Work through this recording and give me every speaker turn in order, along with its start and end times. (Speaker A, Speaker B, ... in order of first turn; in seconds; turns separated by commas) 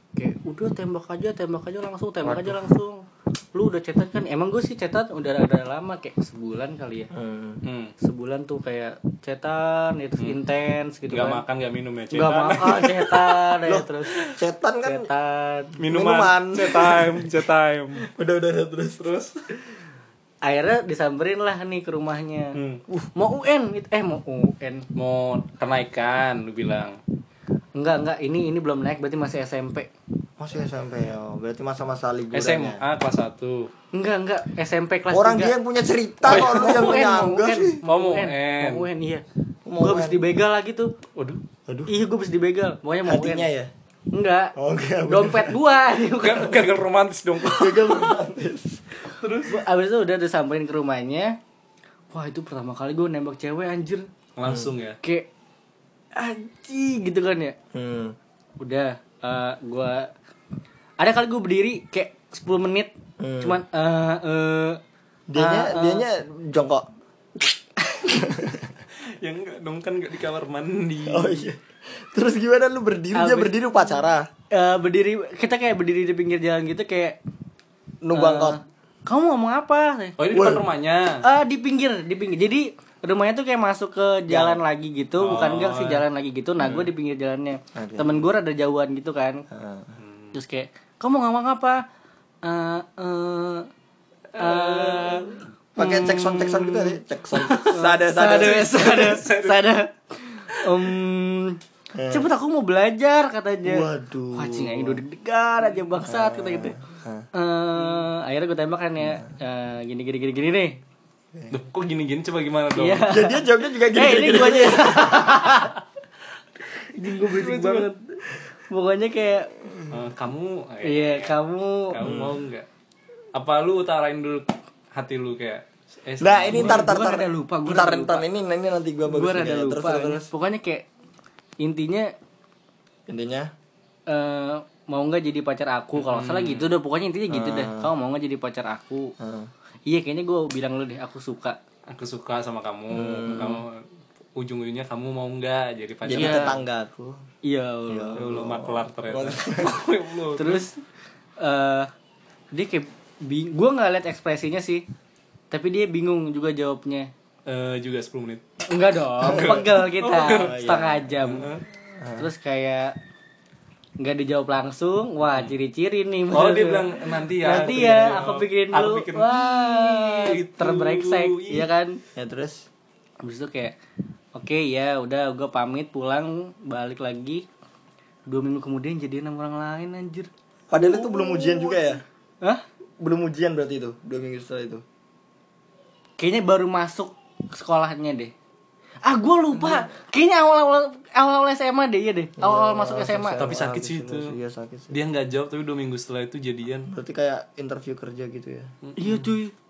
Speaker A: 0.1-7.1, Speaker B: 7.1-7.6, Speaker C: 7.6-7.9, Speaker A: 8.0-11.4, Speaker C: 11.1-13.4, Speaker A: 12.1-14.1, Speaker B: 13.7-15.1, Speaker A: 14.8-15.7, Speaker C: 15.8-18.1, Speaker B: 15.9-17.3, Speaker B: 18.1-19.0, Speaker C: 19.0-19.3, Speaker A: 20.4-24.9, Speaker C: 22.5-22.8, Speaker C: 24.9-27.0, Speaker A: 27.7-29.9, Speaker B: 30.4-32.8, Speaker C: 32.3-33.7, Speaker A: 33.9-35.5, Speaker B: 35.1-37.8, Speaker C: 36.3-37.1, Speaker A: 36.3-39.2, Speaker C: 37.8-38.9, Speaker B: 39.6-40.2, Speaker A: 39.8-40.9, Speaker C: 41.1-41.4, Speaker A: 41.9-43.5, Speaker B: 43.0-43.7, Speaker A: 44.1-44.5, Speaker B: 44.5-45.5, Speaker A: 45.0-46.6, Speaker C: 46.1-48.2, Speaker B: 47.4-48.8, Speaker C: 49.1-49.6, Speaker A: 49.5-51.4, Speaker A: 52.1-54.1, Speaker C: 54.4-55.0, Speaker A: 55.0-55.3, Speaker A: 56.1-57.5, Speaker B: 57.7-58.1, Speaker A: 58.6-60.1, Speaker A: 61.0-64.8, Speaker B: 63.2-63.6, Speaker B: 65.3-66.8, Speaker A: 65.3-66.0, Speaker B: 68.1-68.7, Speaker C: 69.2-71.4, Speaker B: 71.0-74.3, Speaker A: 73.1-73.6, Speaker A: 74.5-77.2, Speaker B: 78.0-78.6, Speaker A: 78.1-80.2, Speaker C: 80.2-81.2, Speaker B: 80.3-80.6, Speaker A: 81.2-89.4, Speaker B: 84.3-84.6, Speaker C: 85.2-86.0, Speaker B: 87.7-88.3, Speaker B: 89.5-90.0, Speaker C: 90.0-90.3, Speaker A: 90.3-91.8, Speaker A: 92.4-93.7, Speaker C: 94.3-95.2, Speaker A: 94.3-95.4, Speaker B: 95.8-99.2, Speaker C: 95.8-99.7, Speaker A: 97.7-101.6, Speaker B: 101.9-102.3, Speaker A: 102.1-106.8, Speaker B: 103.7-105.0, Speaker B: 106.0-107.2, Speaker A: 107.3-110.8, Speaker C: 111.5-113.1, Speaker A: 112.8-115.8, Speaker B: 113.1-115.4, Speaker A: 116.9-119.5, Speaker C: 117.0-117.9, Speaker C: 119.9-121.3, Speaker A: 120.8-122.0, Speaker C: 121.9-122.7, Speaker B: 122.0-122.4, Speaker C: 123.3-126.9, Speaker B: 126.2-130.3, Speaker A: 126.5-128.2, Speaker A: 129.1-130.8, Speaker A: 131.6-132.1, Speaker B: 133.1-133.5, Speaker A: 134.1-139.1, Speaker C: 135.9-136.7, Speaker B: 137.3-137.9, Speaker B: 139.2-139.5, Speaker A: 139.9-141.6, Speaker C: 141.9-143.8, Speaker B: 142.9-143.6, Speaker C: 144.3-146.6, Speaker B: 146.1-147.2, Speaker A: 146.1-146.6, Speaker A: 147.4-148.3, Speaker B: 147.9-149.8, Speaker C: 148.2-150.7, Speaker A: 150.4-150.8, Speaker A: 151.4-151.9, Speaker A: 152.5-154.8, Speaker A: 155.5-157.1, Speaker C: 157.4-158.4, Speaker A: 158.7-161.5, Speaker C: 159.2-160.7, Speaker B: 160.3-162.3, Speaker C: 161.2-161.6, Speaker A: 162.2-162.9, Speaker A: 164.0-172.0, Speaker C: 166.3-171.7, Speaker B: 167.4-168.2, Speaker B: 172.2-172.6, Speaker A: 173.2-173.7, Speaker A: 174.3-177.4, Speaker A: 178.2-181.9, Speaker B: 180.7-182.0, Speaker B: 183.0-184.8, Speaker A: 186.2-188.3, Speaker A: 189.0-193.4, Speaker B: 192.4-195.0, Speaker C: 193.4-194.3, Speaker C: 194.9-196.9, Speaker B: 196.9-198.7, Speaker C: 198.8-199.2, Speaker A: 199.0-199.5